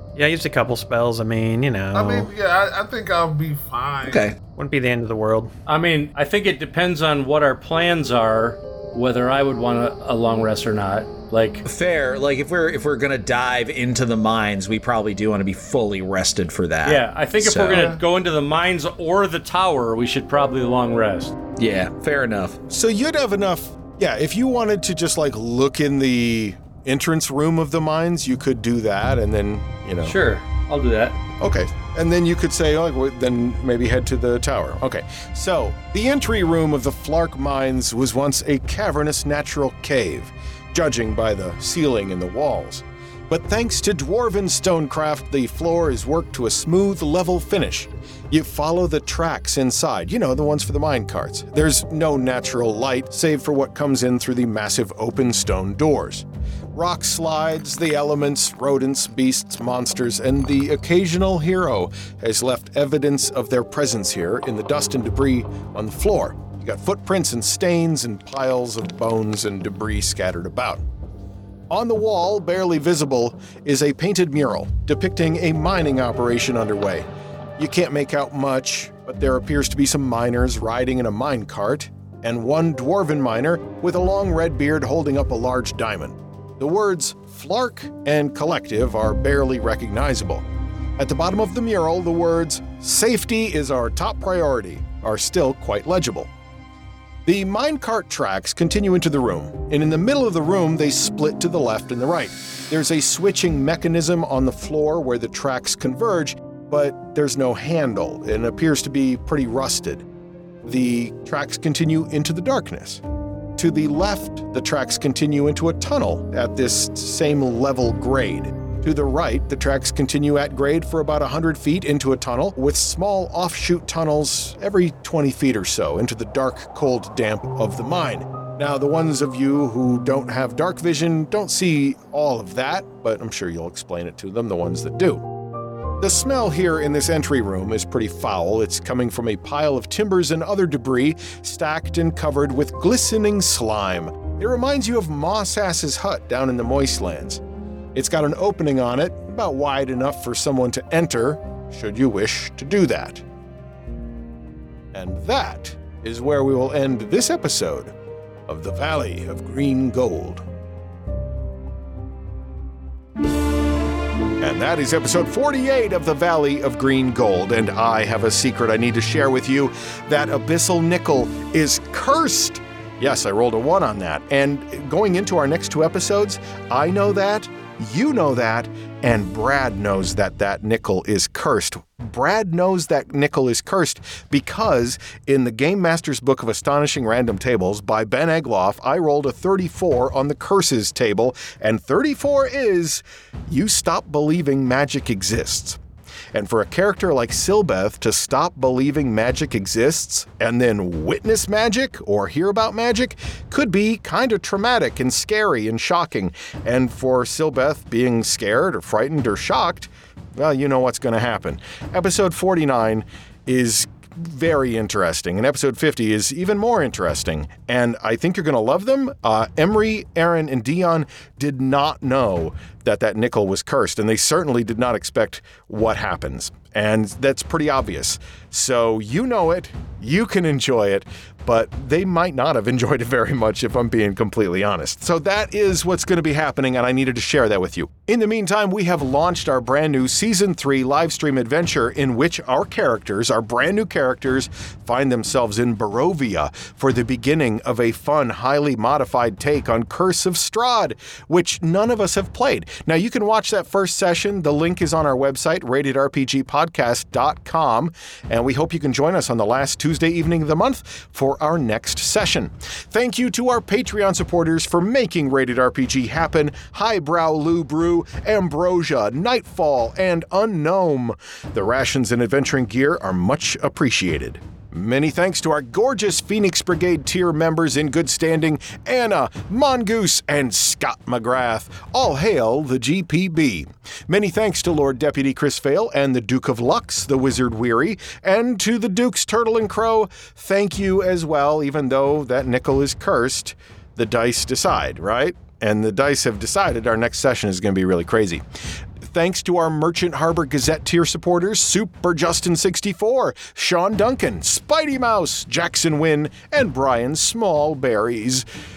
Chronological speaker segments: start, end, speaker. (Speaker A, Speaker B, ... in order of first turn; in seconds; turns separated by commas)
Speaker A: 0.1-2.3, Speaker B: 1.9-4.2, Speaker C: 4.0-4.3, Speaker A: 4.6-5.5, Speaker D: 5.7-11.6, Speaker C: 11.6-18.0, Speaker D: 16.8-21.3, Speaker B: 17.7-18.0, Speaker C: 21.6-22.6, Speaker E: 22.7-30.2, Speaker D: 30.0-31.2, Speaker E: 31.4-70.8, Speaker E: 71.7-90.5, Speaker E: 91.0-96.3, Speaker E: 97.2-110.0, Speaker E: 110.6-113.0, Speaker E: 113.6-135.3, Speaker E: 136.0-147.4, Speaker E: 147.9-153.2, Speaker E: 154.9-157.9, Speaker E: 158.5-160.4, Speaker E: 164.4-195.8, Speaker E: 196.3-298.4, Speaker E: 299.0-308.4